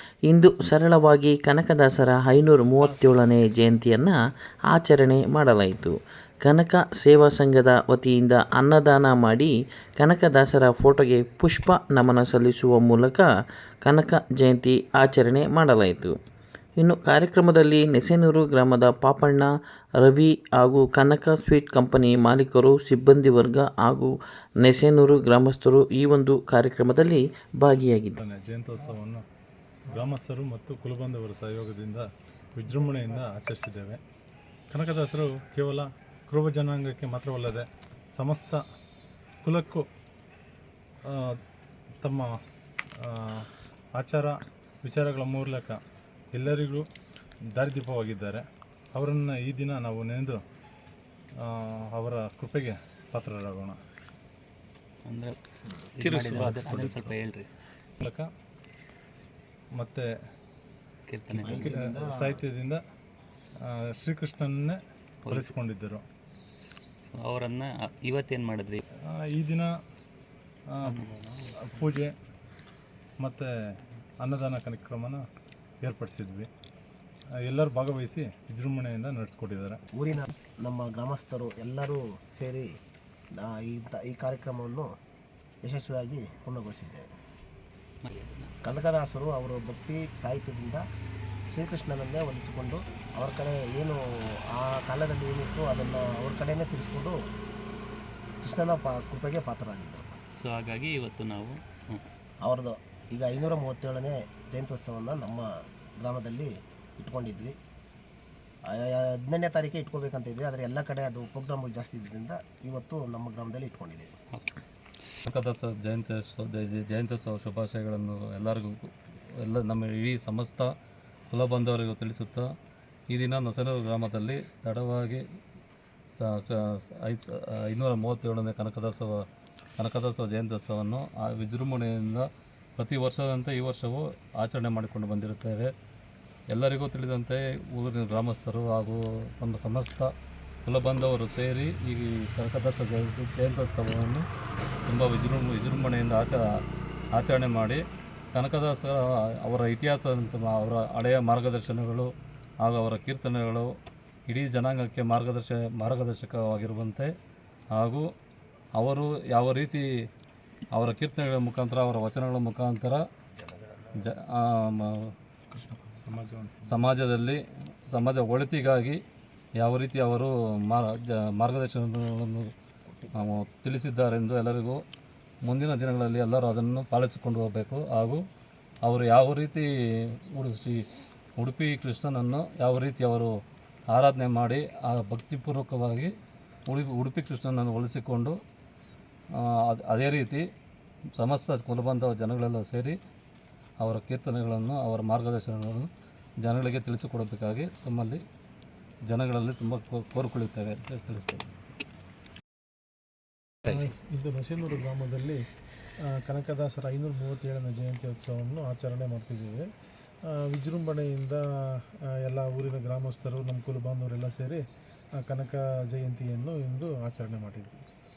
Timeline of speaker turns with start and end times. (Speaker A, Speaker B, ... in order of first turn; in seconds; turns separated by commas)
Speaker A: 0.3-4.2, Speaker A: 4.7-13.3, Speaker A: 13.8-16.2, Speaker A: 16.8-28.2, Speaker B: 28.2-29.2, Speaker B: 29.9-34.0, Speaker B: 34.7-38.6, Speaker B: 39.4-39.9, Speaker B: 41.1-41.4, Speaker B: 42.0-42.4, Speaker B: 43.0-45.8, Speaker B: 46.3-46.9, Speaker B: 47.6-48.4, Speaker B: 49.0-50.4, Speaker B: 51.5-53.8, Speaker C: 55.1-55.4, Speaker C: 56.0-57.5, Speaker D: 56.0-57.1, Speaker B: 58.0-58.3, Speaker B: 59.8-60.1, Speaker C: 61.1-61.8, Speaker E: 61.4-62.4, Speaker B: 61.4-62.8, Speaker B: 63.6-66.1, Speaker C: 65.2-65.5, Speaker C: 67.1-68.8, Speaker B: 69.1-69.7, Speaker B: 70.8-71.0, Speaker C: 70.8-71.5, Speaker B: 71.6-72.1, Speaker B: 73.2-73.5, Speaker B: 74.2-75.2, Speaker B: 75.8-76.5, Speaker B: 77.4-79.8, Speaker E: 79.9-82.7, Speaker E: 83.3-84.9, Speaker E: 85.6-87.1, Speaker C: 88.0-88.5, Speaker E: 88.6-90.8, Speaker E: 91.5-97.2, Speaker E: 98.4-100.2, Speaker C: 100.4-102.0, Speaker E: 102.4-105.5, Speaker E: 106.0-107.6, Speaker E: 108.7-114.1, Speaker C: 114.3-114.6, Speaker D: 115.3-120.7, Speaker D: 121.3-122.5, Speaker D: 123.1-125.2, Speaker D: 126.1-129.2, Speaker D: 129.8-135.7, Speaker D: 136.5-140.1, Speaker D: 140.7-144.2, Speaker D: 144.9-146.4, Speaker D: 147.1-147.8, Speaker D: 148.3-153.7, Speaker D: 154.3-157.1, Speaker D: 157.7-158.1, Speaker D: 158.8-159.8, Speaker D: 160.7-163.1, Speaker E: 163.4-164.1, Speaker D: 163.9-165.1, Speaker B: 165.8-167.0, Speaker D: 166.7-169.0, Speaker D: 169.6-172.5, Speaker E: 172.9-173.4, Speaker D: 173.1-174.8, Speaker D: 175.4-178.2, Speaker D: 178.8-179.7, Speaker D: 180.3-180.8, Speaker D: 181.4-183.3, Speaker D: 183.9-186.1, Speaker D: 186.7-188.4, Speaker D: 189.3-190.4, Speaker D: 191.2-193.0, Speaker D: 193.8-195.9, Speaker D: 196.4-198.2, Speaker D: 199.1-201.4, Speaker F: 203.7-205.4, Speaker F: 206.1-209.7, Speaker F: 210.3-214.6, Speaker F: 215.2-217.8